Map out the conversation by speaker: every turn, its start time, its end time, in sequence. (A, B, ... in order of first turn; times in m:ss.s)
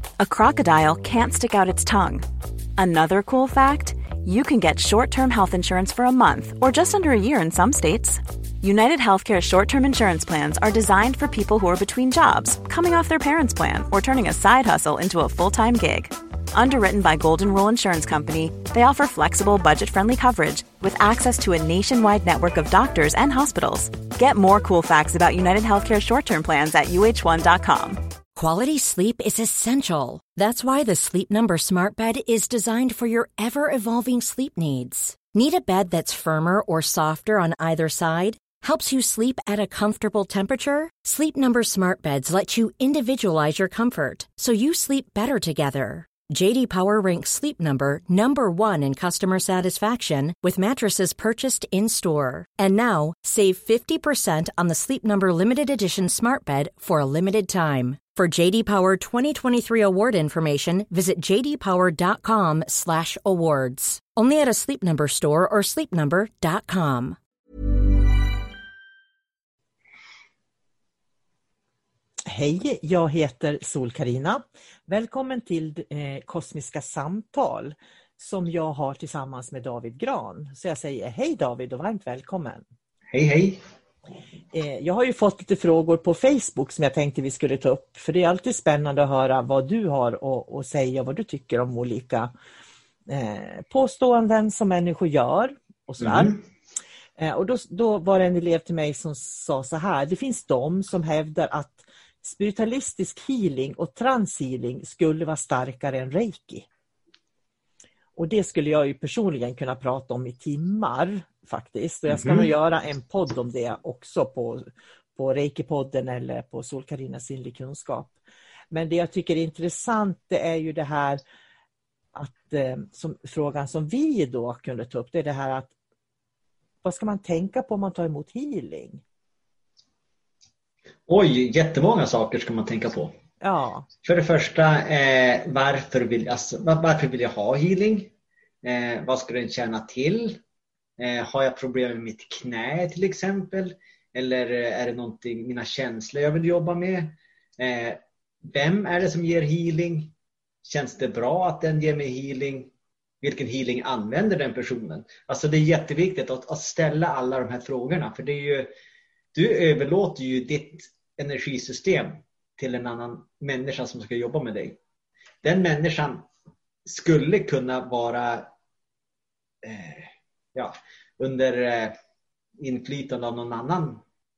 0:00.2-0:02.2 A
0:02.8-0:28.0 A
0:28.4-1:07.2 B
1:12.3-1:22.6 C
1:23.1-1:23.6 D
1:24.5-1:32.3 C
1:33.1-1:36.3 C
1:36.0-1:36.4 D
1:37.2-1:46.6 C
1:48.2-1:58.1 C
1:52.1-1:52.5 D
1:58.7-2:01.2 C
2:02.1-2:05.7 C
2:06.8-2:09.0 C
2:11.1-2:13.1 D
2:13.4-2:13.9 C
2:14.0-2:18.1 D
2:18.6-2:20.4 D
2:21.0-2:30.1 D
2:30.6-2:38.7 D
2:39.3-2:44.8 D
2:45.4-2:46.3 D
2:46.8-2:48.5 D
2:49.6-2:52.0 D
2:52.6-2:54.0 D